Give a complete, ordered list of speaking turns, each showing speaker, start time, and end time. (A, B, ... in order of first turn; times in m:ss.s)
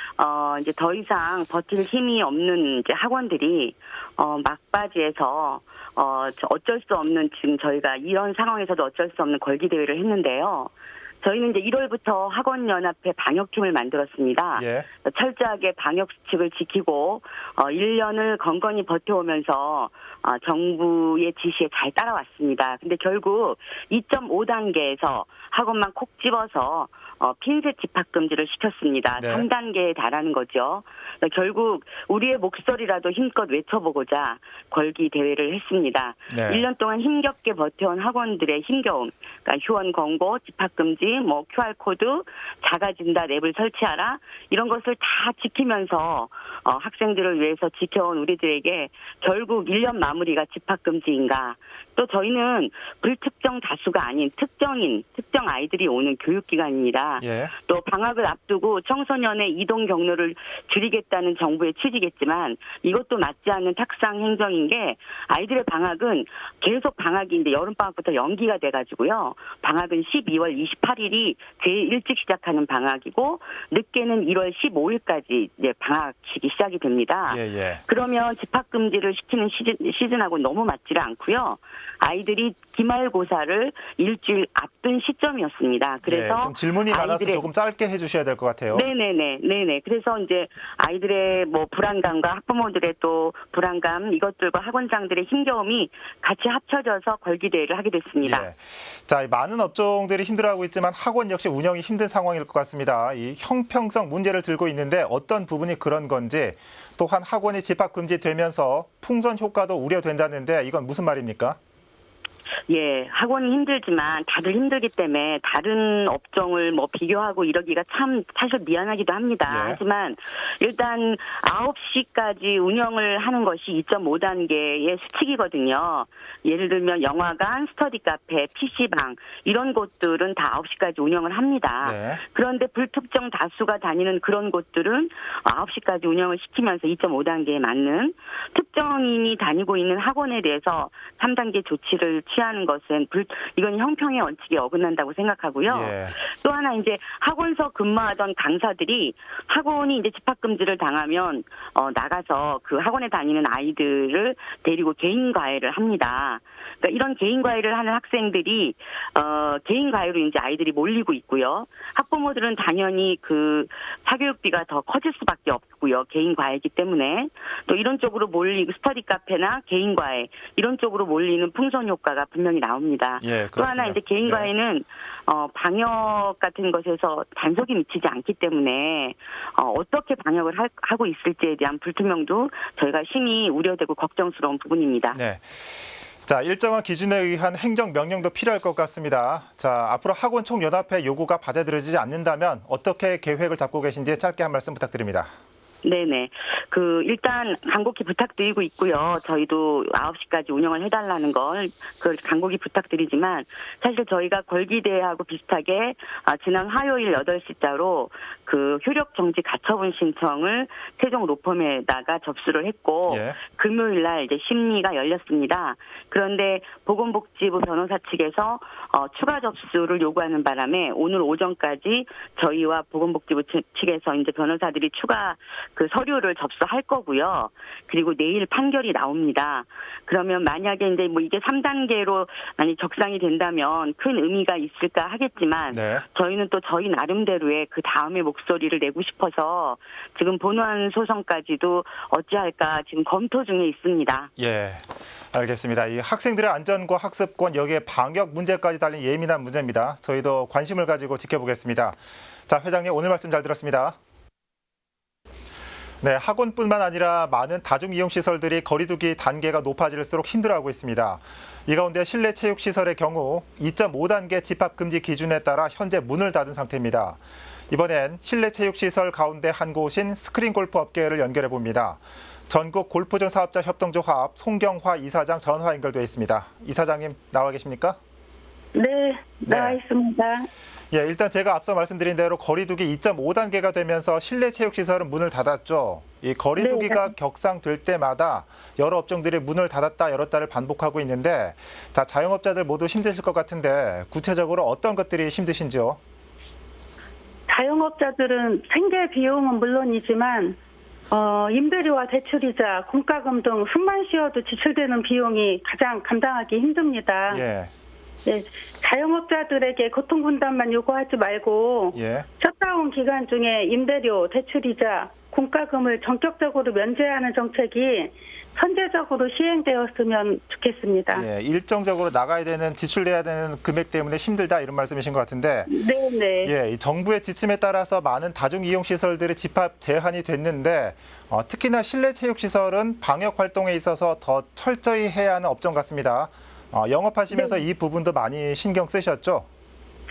0:00.2-1:27.5 A
0:14.6-0:14.9 B
0:29.2-0:29.5 B
0:36.3-0:36.6 B
0:57.2-0:57.5 B
1:17.3-1:17.8 B
1:26.0-1:28.9 B
1:28.7-1:38.5 A
1:38.2-1:51.6 B
1:52.7-3:05.2 A
1:59.5-1:59.8 B
2:11.8-2:12.2 B
2:25.7-2:26.2 B
2:53.2-2:54.5 B
3:05.1-3:15.3 B
3:15.8-4:04.3 A
3:33.1-3:33.4 B
3:55.7-3:56.0 B
4:04.4-4:14.0 B
4:16.0-4:38.0 B
4:38.8-4:40.5 C
4:39.5-4:39.8 B
4:40.9-4:56.0 B
4:46.6-4:47.1 C
4:57.5-5:00.6 C
5:01.1-5:07.4 C
5:07.3-5:07.7 B
5:08.2-5:21.3 C
5:11.9-5:12.3 B
5:21.1-5:25.7 B
5:25.7-5:26.5 C
5:26.4-5:39.5 B
5:37.3-5:37.6 C